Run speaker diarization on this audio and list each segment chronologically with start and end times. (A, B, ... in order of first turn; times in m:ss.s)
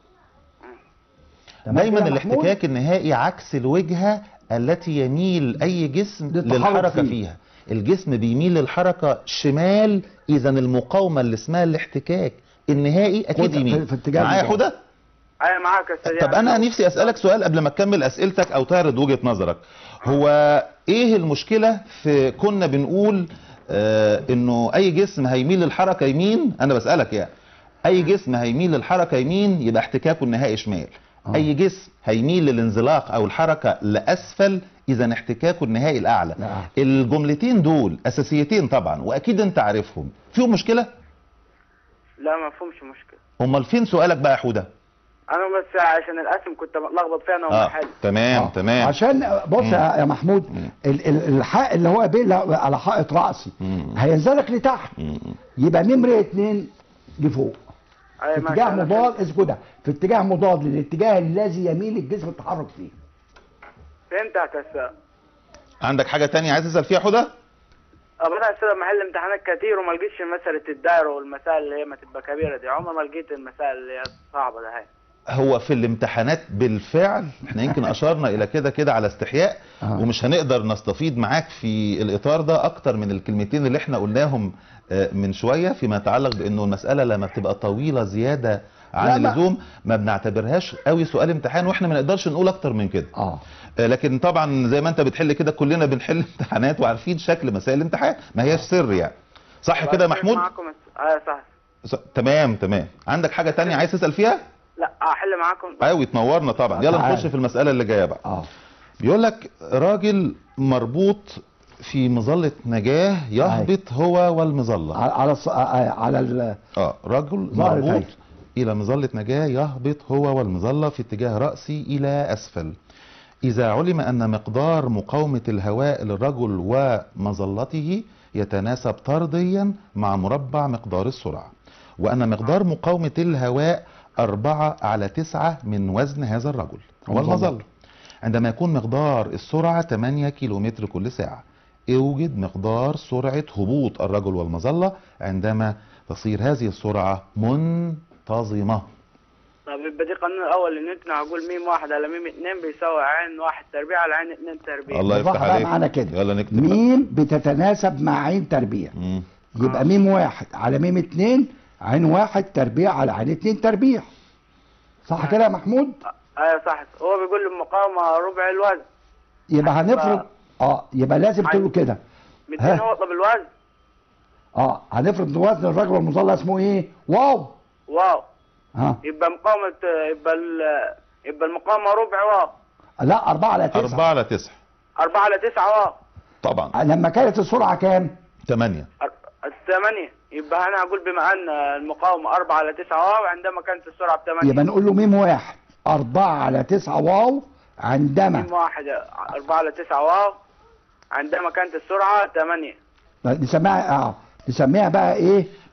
0:01.7-0:02.6 A
0:01.7-0:14.8 B
0:06.3-0:07.2 A
0:13.3-0:14.6 A
0:15.4-0:17.1 C
0:16.0-0:27.3 B
0:27.8-0:40.9 B
0:36.4-0:36.7 A
0:42.2-0:43.2 C
0:43.4-0:44.7 B
0:45.3-0:48.0 C
0:47.5-0:49.0 B
0:48.3-0:55.0 A
0:55.0-0:55.3 B
0:55.6-0:57.6 A
0:58.2-0:59.2 C
0:58.3-1:03.0 A
1:04.1-1:04.9 C
1:05.8-1:07.3 B
1:08.2-1:14.9 C
1:15.3-1:33.1 B
1:29.0-1:29.4 A
1:33.1-1:33.4 A
1:33.8-1:40.5 B
1:39.8-1:41.4 C
1:41.8-1:44.4 B
1:44.8-1:45.9 C
1:45.8-1:48.2 B
1:46.7-1:47.3 A
1:49.0-1:55.0 B
1:53.4-1:53.7 A
1:54.9-1:56.6 A
1:56.7-2:02.8 B
1:57.5-1:58.1 A
2:03.4-2:17.6 B
2:17.0-2:17.6 A
2:18.2-2:28.9 B
2:29.6-2:35.1 C
2:34.9-2:36.8 B
2:35.1-2:38.9 A
2:39.0-2:39.2 B
2:39.6-2:44.1 A
2:45.1-2:46.0 A
2:46.4-2:48.8 C
2:49.5-2:52.0 A
2:49.6-2:50.2 C
2:52.5-2:53.5 C
2:52.6-2:52.8 A
2:54.6-2:57.5 A
2:57.9-2:58.3 C
2:58.7-2:59.0 A
2:59.0-3:02.5 C
3:03.0-3:04.0 A
3:03.7-3:04.6 B
3:05.0-3:06.0 C
3:06.4-3:06.7 B
3:06.7-3:08.1 A
3:08.4-3:08.9 B
3:09.0-3:14.6 C
3:14.4-3:18.5 A
3:18.3-3:20.4 C
3:21.1-3:22.8 C
3:23.2-3:25.5 A